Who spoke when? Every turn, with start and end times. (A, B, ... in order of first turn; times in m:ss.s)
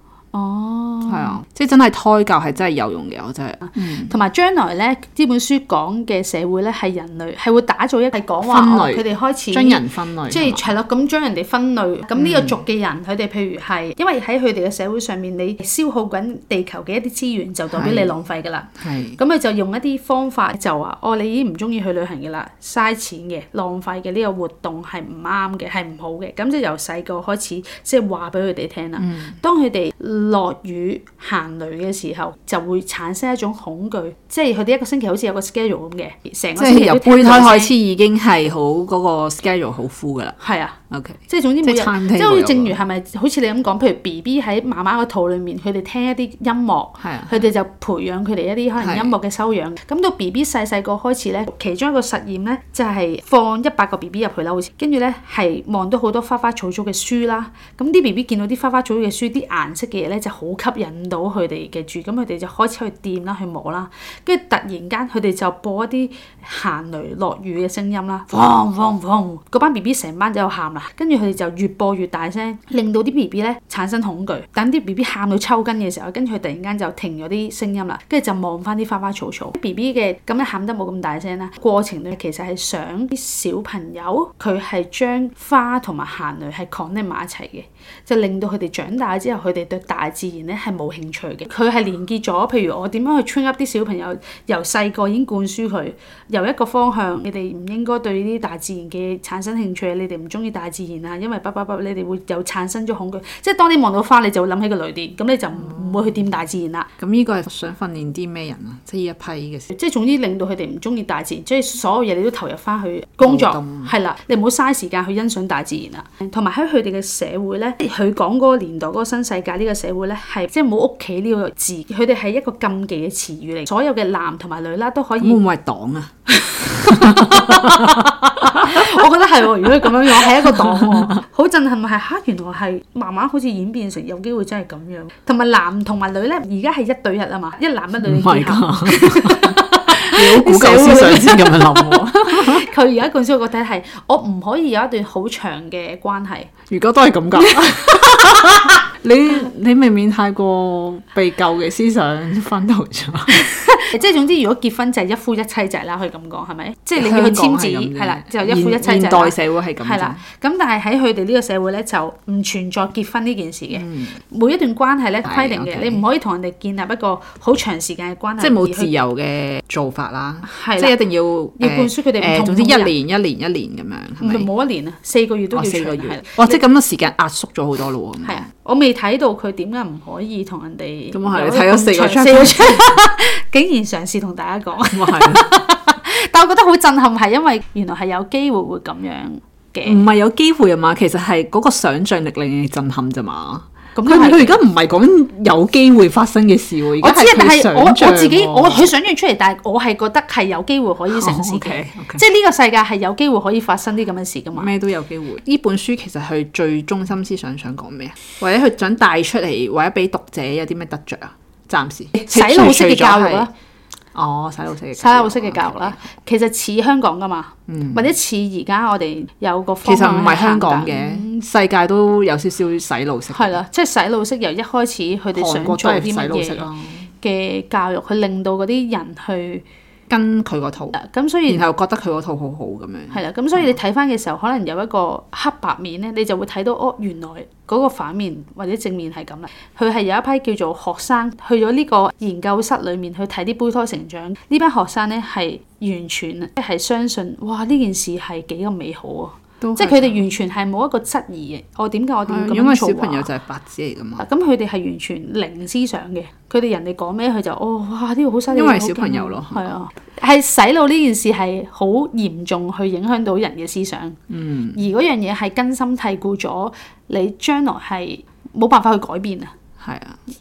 0:00.3-0:01.4 A
0:01.0-0:04.1 B
0:03.7-0:37.7 A
0:08.4-0:10.7 B
0:12.2-0:12.6 B
0:17.7-0:18.1 B
0:18.8-0:19.2 B
0:29.0-0:29.4 B
0:36.6-0:40.4 B
0:40.4-1:46.9 A
0:40.9-0:42.7 B
0:47.0-0:47.4 B
0:48.8-0:49.1 B
1:45.5-1:46.2 B
1:47.0-1:49.7 B
1:49.7-2:05.4 A
1:53.2-1:53.9 B
2:05.2-2:08.9 B
2:06.3-2:26.5 A
2:09.6-2:11.2 B
2:18.0-2:22.6 B
2:26.7-2:33.5 B
2:27.4-2:27.9 A
2:33.5-2:48.9 A
2:37.0-2:40.2 B
2:43.7-2:44.2 B
2:45.2-2:46.0 B
2:48.4-2:54.5 B
2:50.4-2:50.9 A
2:51.6-2:52.9 A
2:54.2-2:56.6 A
2:55.5-2:58.4 B
2:58.2-3:10.0 A
3:01.1-3:02.9 B
3:04.9-3:05.5 B
3:09.8-3:18.9 B
3:13.9-3:14.6 A
3:17.0-3:24.7 A
3:21.1-3:22.2 B
3:24.5-3:33.5 B
3:32.1-3:33.5 A
3:34.1-3:36.0 B
3:35.0-3:41.4 A
3:37.7-3:38.1 B
3:39.8-3:43.6 B
3:43.3-3:46.7 A
3:45.3-3:47.1 B
3:47.2-3:49.6 A
3:50.1-3:51.0 B
3:50.9-3:51.6 A
3:51.5-3:53.7 B
3:53.1-4:13.3 A
4:09.6-4:10.2 B
4:12.2-4:14.2 B
4:14.2-4:24.2 A
4:18.5-4:19.7 B
4:24.3-4:24.8 B
4:24.7-4:29.5 A
4:29.8-4:30.2 B